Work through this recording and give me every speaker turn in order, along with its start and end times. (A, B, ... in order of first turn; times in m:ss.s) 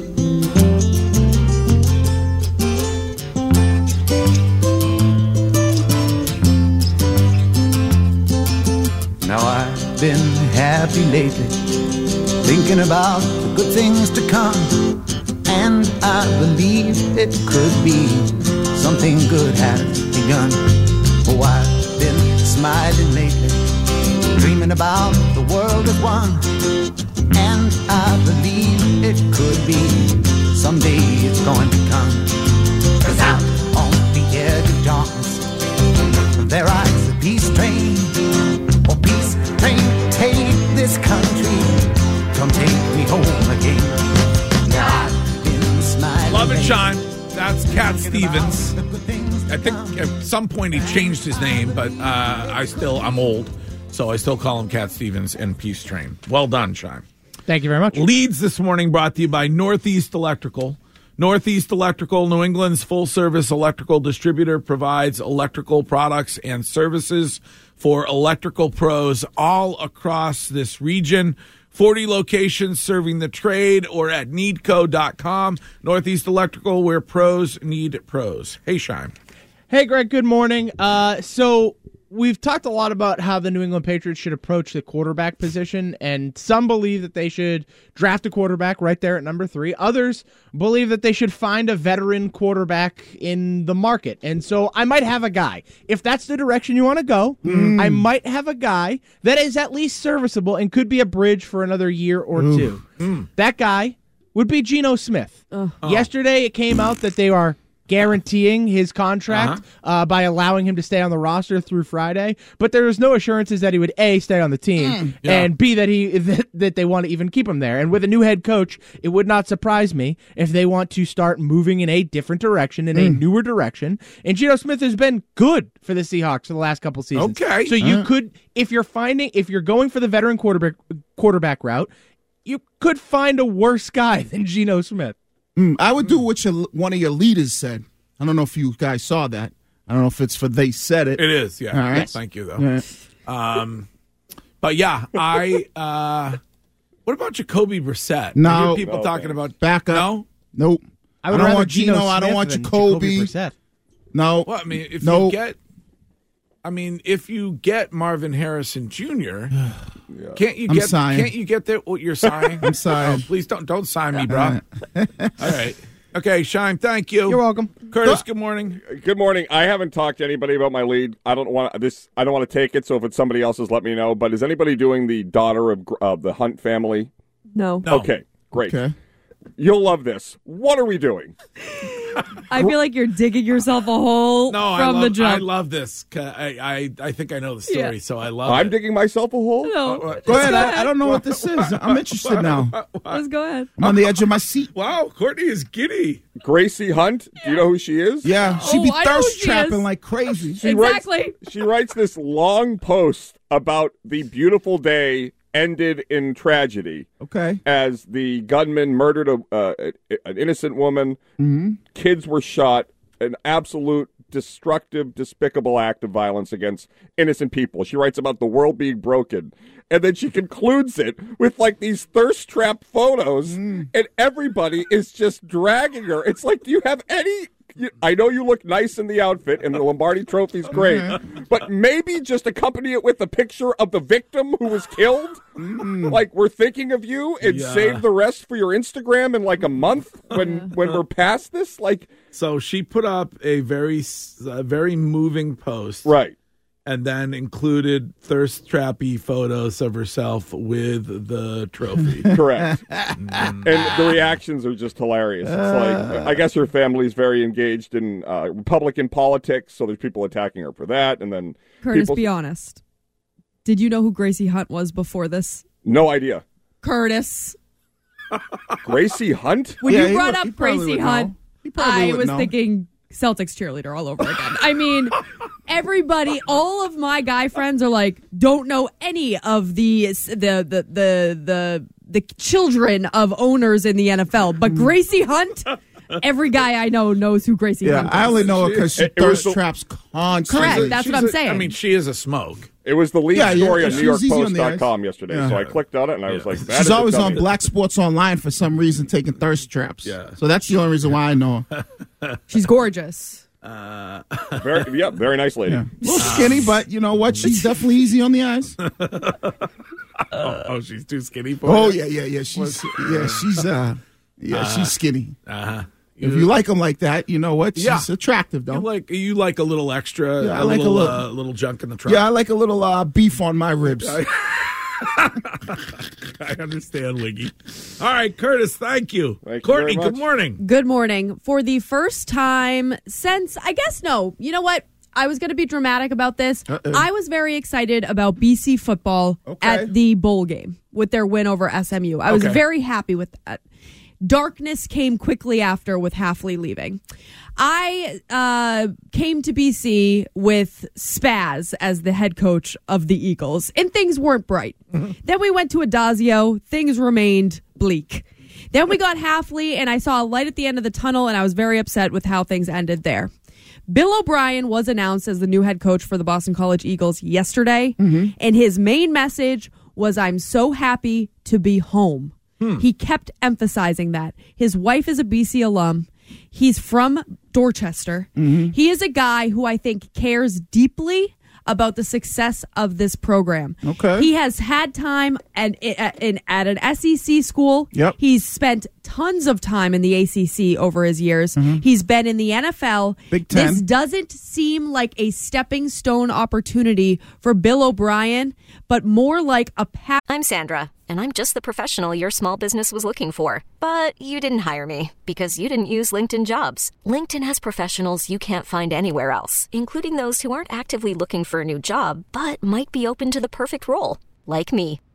0:09.2-0:23.7 A
0:24.3-0:26.5 A
0:27.3-0:32.5 A
0:33.0-0:35.6 A
0:36.3-0:53.2 A
0:46.2-0:48.7 B
0:49.5-0:57.0 B
0:57.5-0:58.1 C
0:57.9-1:19.1 B
1:19.7-1:42.8 C
1:37.4-1:38.1 D
1:37.4-1:37.8 B
1:42.4-1:42.7 D
1:43.0-1:43.3 B
1:43.4-2:11.9 C
1:45.8-1:46.1 B
1:49.3-1:49.6 B
1:54.8-1:55.1 D
1:55.2-1:55.5 B
2:02.9-2:03.2 D
2:07.1-2:07.7 B
2:07.8-2:08.1 D
2:12.4-2:15.2 C
2:15.6-2:22.8 D
2:21.2-2:22.6 B
2:23.2-2:23.9 B
2:24.6-2:26.4 B
2:27.0-2:30.2 B
2:28.4-2:28.9 D
2:28.8-2:29.3 E
2:29.6-2:33.3 D
2:31.2-2:33.5 C
2:34.1-2:35.4 D
2:34.4-2:35.6 B
2:36.6-2:39.6 B
2:40.1-2:40.4 E
2:40.4-2:44.6 B
2:40.7-2:41.3 D
2:42.6-2:43.2 D
2:44.2-2:45.3 D
2:45.4-2:48.8 B
2:47.3-2:47.8 C
2:48.9-2:57.1 E
2:57.5-2:57.9 F
2:57.8-2:58.1 B
2:57.9-2:58.8 E
2:58.6-2:58.9 D
2:59.6-3:01.3 E
3:01.7-3:05.5 F
3:04.5-3:08.7 B
3:07.7-3:07.9 F
3:08.4-3:09.9 E
3:09.6-3:10.9 F
3:09.9-3:13.2 B
3:10.2-3:12.8 D
3:13.1-3:13.7 F
3:13.8-3:14.7 D
3:14.7-3:16.2 B
3:16.4-3:18.3 E
3:18.2-3:20.6 D
3:18.6-3:19.8 F
3:20.6-3:27.1 E
3:20.6-3:21.4 F
3:27.2-3:27.6 D
3:27.6-3:31.2 E
3:31.4-3:31.8 D
3:31.9-3:55.4 E
3:43.5-3:43.9 D
3:50.7-3:51.2 D
3:55.6-3:56.2 D
3:55.9-4:02.1 E
3:57.4-3:58.0 B
4:02.3-4:06.1 B
4:06.0-4:06.3 E
4:06.8-4:12.4 B
4:12.3-4:12.8 E
4:12.6-4:13.3 D
4:13.2-4:13.9 B
4:13.6-4:22.2 E
4:15.5-4:16.4 D
4:21.8-4:22.8 F
4:23.6-4:25.6 F
4:25.8-4:26.4 E
4:26.8-4:27.6 F
4:28.8-4:29.8 E
4:29.8-4:48.5 F
4:29.8-4:32.5 D
4:47.8-4:50.9 D
4:48.2-4:49.4 B
4:49.0-4:49.6 E
4:50.5-4:51.7 F
4:50.5-4:52.7 B
4:52.8-4:57.4 E
4:53.3-4:55.7 D
4:53.4-4:54.1 B
4:56.3-4:57.4 B
4:56.7-5:01.6 D
5:00.0-5:00.4 B
5:01.7-5:02.4 B
5:02.5-5:03.4 F
5:03.6-5:04.8 B
5:04.6-5:05.8 E
5:05.7-5:08.8 D
5:06.2-5:06.7 B
5:08.8-5:09.7 B
5:10.3-5:12.0 B
5:11.6-5:15.4 D
5:12.5-5:13.6 B
5:14.5-5:14.9 B
5:15.4-5:16.5 B
5:16.2-5:18.9 D
5:17.8-5:18.1 B
5:18.7-5:22.2 B
5:20.4-5:21.3 D
5:22.0-5:24.2 D
5:24.0-5:30.6 B
5:29.4-5:30.2 E
5:30.6-5:43.6 F
5:36.7-5:37.0 D
5:39.4-5:39.9 D
5:42.3-5:42.6 B
5:44.2-5:47.0 F
5:47.6-6:03.3 F
6:03.9-6:40.2 F
6:08.0-6:08.3 D
6:18.4-6:18.7 D
6:23.8-6:24.3 D
6:31.6-6:31.8 D
6:33.3-6:33.8 D
6:40.3-6:55.0 G